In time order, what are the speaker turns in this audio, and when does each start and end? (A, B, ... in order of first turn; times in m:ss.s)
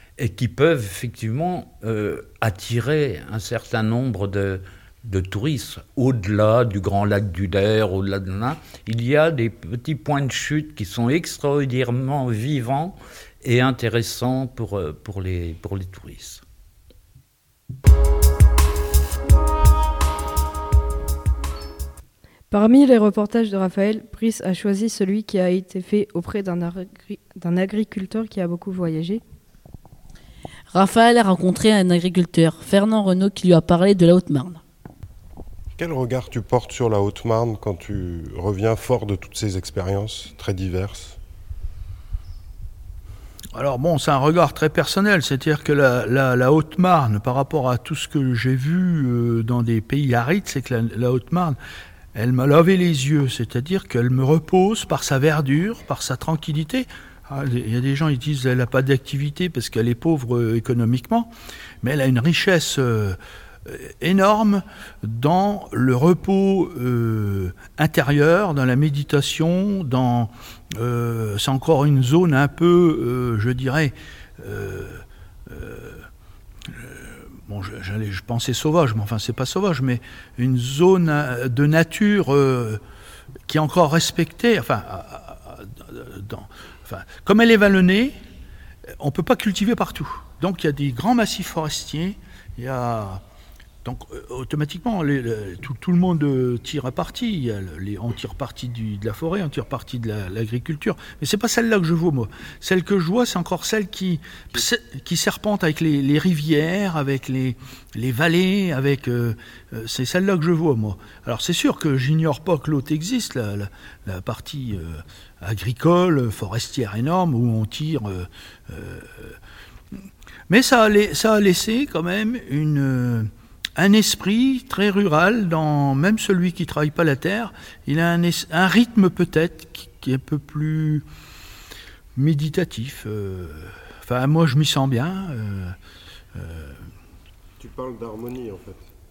0:00.2-0:16.4 A
0:22.5-0:29.2 B
0:30.7-0:34.6 C
0:35.8-0:41.2 D
0:43.5-0:51.6 E
0:52.1-1:01.3 E
1:01.8-1:16.1 E
1:16.7-1:22.8 E
1:23.5-1:28.2 E
1:29.0-1:33.2 E
1:33.8-1:59.4 E
1:59.9-2:11.0 E
2:12.2-2:15.8 E
2:16.3-2:16.9 E
2:17.6-2:18.8 D